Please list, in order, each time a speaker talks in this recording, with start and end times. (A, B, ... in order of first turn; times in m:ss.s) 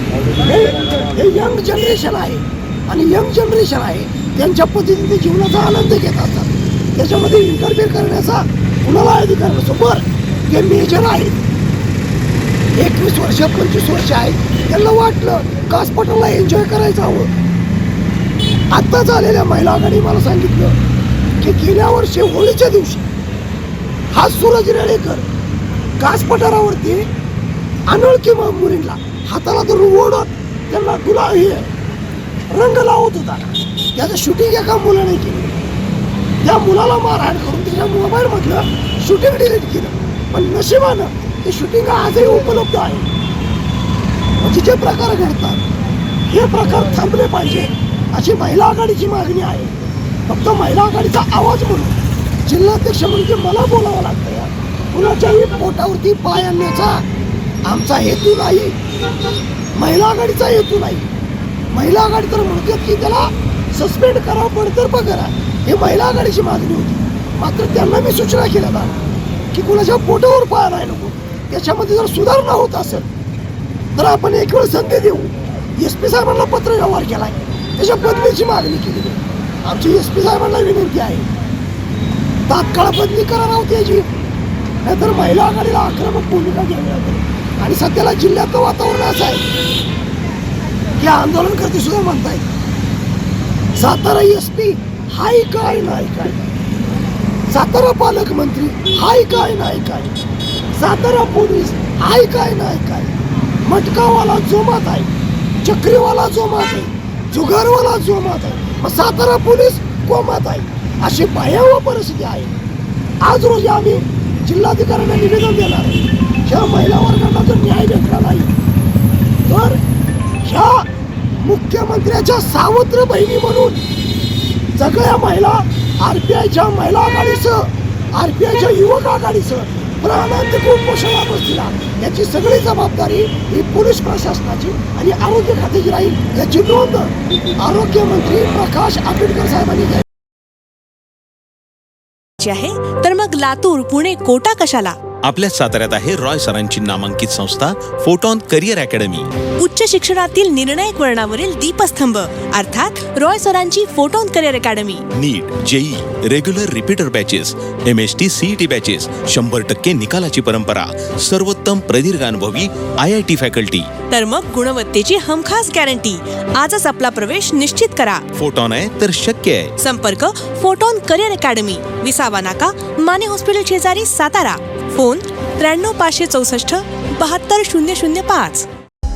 0:00.4-0:11.5 A
0:12.8-0:17.3 A
0:18.7-0:20.8 A
0:21.4-0:23.0 A
0:24.1-0:25.2 A
0:26.0-0:27.1 A
0:27.9-0:31.7 A
0:32.5-0:35.6 A
0:36.4-0:43.1 A
0:44.4-0:45.6 A
0:46.3-0:57.0 A
0:57.6-0:58.8 A
0:59.8-1:01.1 A
1:01.7-1:08.9 A
1:09.5-1:13.1 A
1:13.9-1:21.3 A
1:22.5-1:24.1 A
1:24.8-1:29.5 A
1:31.0-1:32.5 A
1:33.8-1:36.5 A
1:37.5-1:40.1 A
1:40.7-1:52.5 A
1:53.2-1:58.5 A
1:59.4-1:59.8 A
2:00.4-2:00.8 A
2:01.4-2:03.8 A
2:04.8-2:20.0 A
2:22.4-2:25.0 B
2:25.2-2:29.3 C
2:29.6-2:35.0 B
2:35.1-2:43.9 C
2:44.1-2:48.2 B
2:48.3-2:49.7 C
2:49.8-2:58.7 B